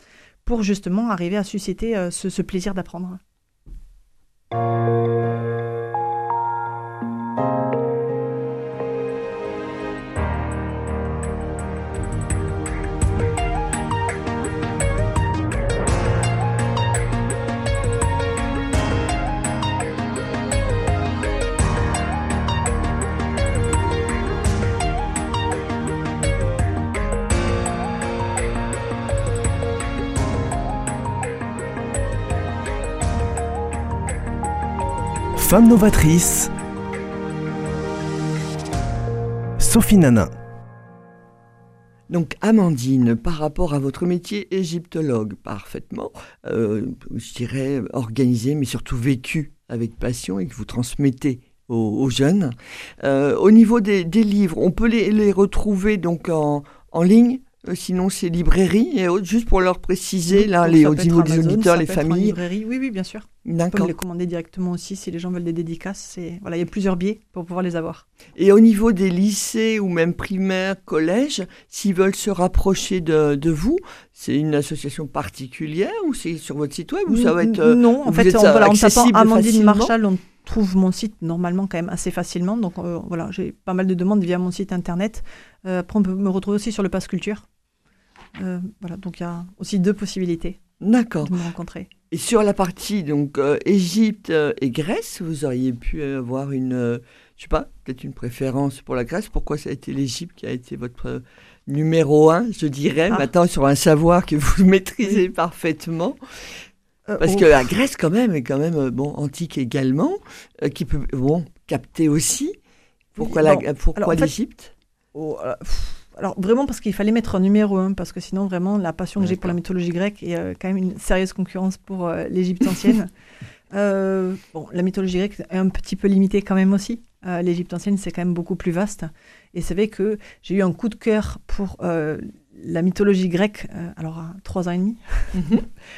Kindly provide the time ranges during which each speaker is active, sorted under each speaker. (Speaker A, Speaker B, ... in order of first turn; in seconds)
Speaker A: 0.5-3.2, 60.3-68.0, 77.1-87.5, 88.4-90.6, 91.2-91.9, 107.1-107.7, 113.2-114.3, 115.1-123.1, 123.7-135.4
Speaker B: 35.4-36.5, 39.6-40.3
Speaker C: 42.1-62.4, 63.4-63.9, 68.3-79.9, 90.8-91.3, 92.1-106.2, 107.2-112.5, 113.2-114.7, 119.2-119.5, 135.3-135.6